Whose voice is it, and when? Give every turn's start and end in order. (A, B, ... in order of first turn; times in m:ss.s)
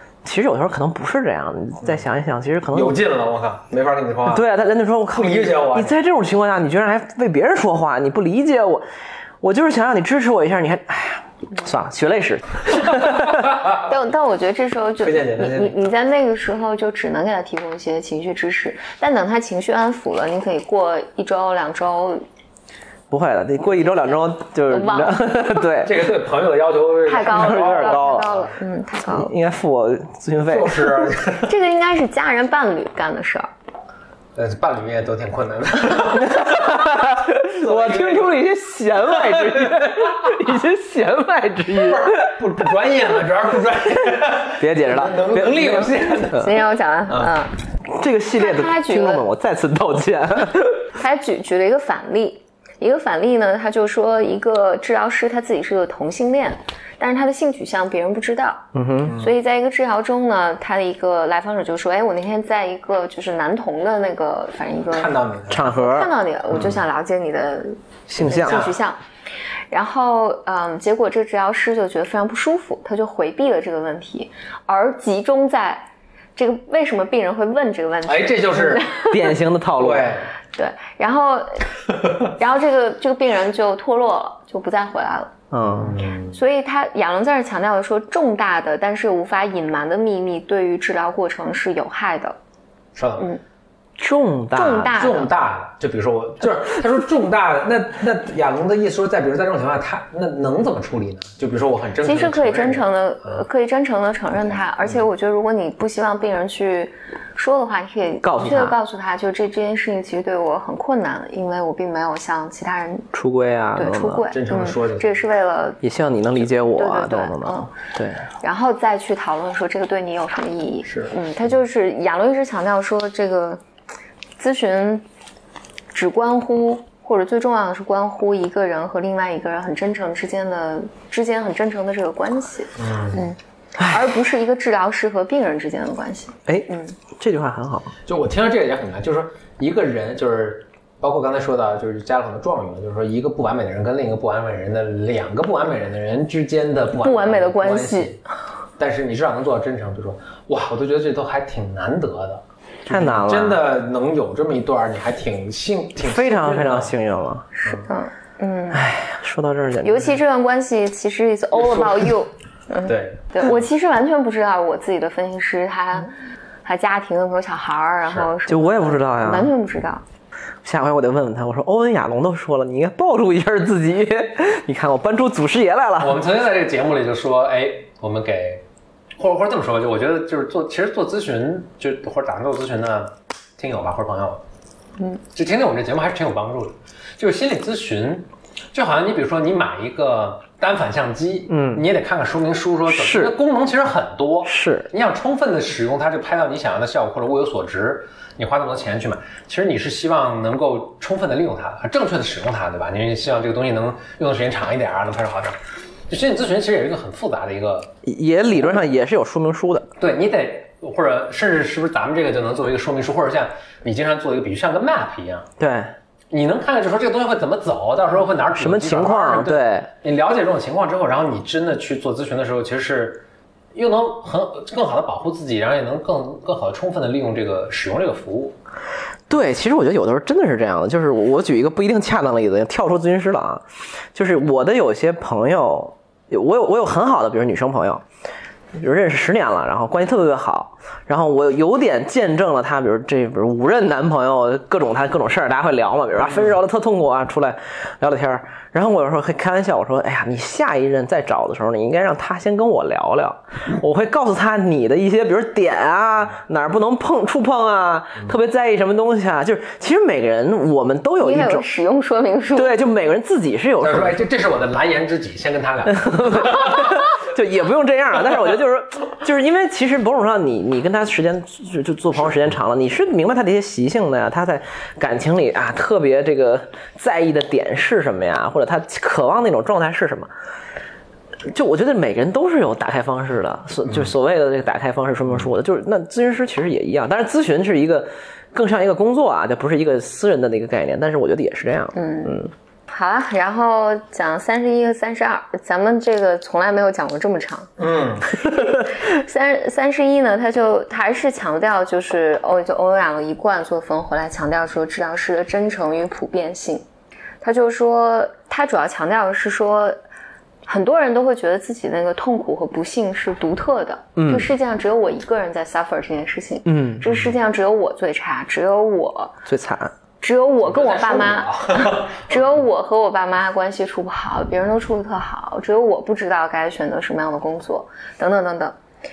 0:00.2-0:03.0 A
0:02.7-0:04.5 B
0:04.3-0:08.8 A
0:05.1-0:06.0 B
0:09.4-0:13.6 A
0:13.8-0:22.2 C
0:15.0-0:15.8 B
0:23.1-0:26.0 A
0:24.7-0:25.6 C
0:25.8-0:28.4 B
0:27.0-0:29.3 C
0:27.2-0:28.3 A
0:29.1-0:31.1 A
0:30.5-0:31.5 B
0:31.4-0:33.5 C
0:34.4-0:38.4 B
0:36.2-0:42.3 A
0:39.2-0:40.0 B
0:41.8-0:46.5 B
0:44.6-0:46.5 A
0:46.3-0:47.5 C
0:47.1-0:47.3 B
0:47.9-0:50.9 A
0:48.3-0:49.2 C
0:51.0-1:09.0 C
0:58.7-0:59.2 A
0:59.0-0:59.3 B
1:04.9-1:05.7 B
1:05.5-1:06.1 A
1:06.5-1:06.8 B
1:08.1-1:08.6 A
1:08.2-1:08.8 B
1:09.7-1:19.2 C
1:18.1-1:18.8 B
1:19.1-1:20.1 A
1:19.8-1:20.3 B
1:20.6-1:25.3 C
1:25.5-1:26.0 A
1:25.7-1:26.4 B
1:26.3-1:32.4 C
1:32.9-1:33.3 B
1:34.0-1:35.0 A
1:34.5-1:35.3 C
1:34.9-1:43.4 B
1:42.0-1:53.1 C
1:48.2-1:48.8 A
1:53.1-1:54.2 A
1:53.8-1:55.8 C
1:54.3-1:55.2 B
1:55.8-1:58.3 A
1:56.6-1:57.7 C
1:58.4-2:03.6 C
2:00.8-2:01.1 B
2:04.4-2:05.0 C
2:05.9-2:17.0 C
2:12.8-2:13.2 B
2:13.8-2:14.0 A
2:16.4-2:17.9 A
2:18.0-2:28.2 B
2:27.0-2:28.1 C
2:28.8-2:36.9 B
2:32.9-2:33.6 A
2:36.0-2:37.4 A
2:37.6-2:38.8 C
2:38.7-2:40.1 A
2:39.8-2:46.1 C
2:41.6-2:42.1 B
2:42.8-2:43.6 B
2:46.6-2:50.0 C
2:48.5-2:49.5 A
2:50.6-2:56.2 A
2:56.0-2:58.6 B
2:59.2-3:04.4 B
3:05.2-3:25.6 B
3:11.5-3:11.8 A
3:12.9-3:13.4 A
3:14.4-3:14.9 A
3:26.1-3:27.9 B
3:28.0-3:29.9 A
3:30.0-3:35.5 B
3:35.6-3:35.9 A
3:36.3-3:48.6 B
3:38.6-3:39.9 A
3:49.3-3:58.0 A
3:58.8-4:21.6 A
4:21.2-4:22.7 C
4:22.5-4:24.2 A
4:23.8-4:27.0 B
4:25.8-4:40.3 A
4:41.5-4:52.5 A
4:51.9-4:57.7 C
4:57.8-4:58.3 B
4:58.3-5:06.8 C
5:07.4-5:10.0 C
5:10.7-5:19.4 C
5:14.2-5:14.5 A
5:16.6-5:17.0 A
5:19.5-5:19.9 A
5:20.2-5:28.8 C
5:20.6-5:22.6 B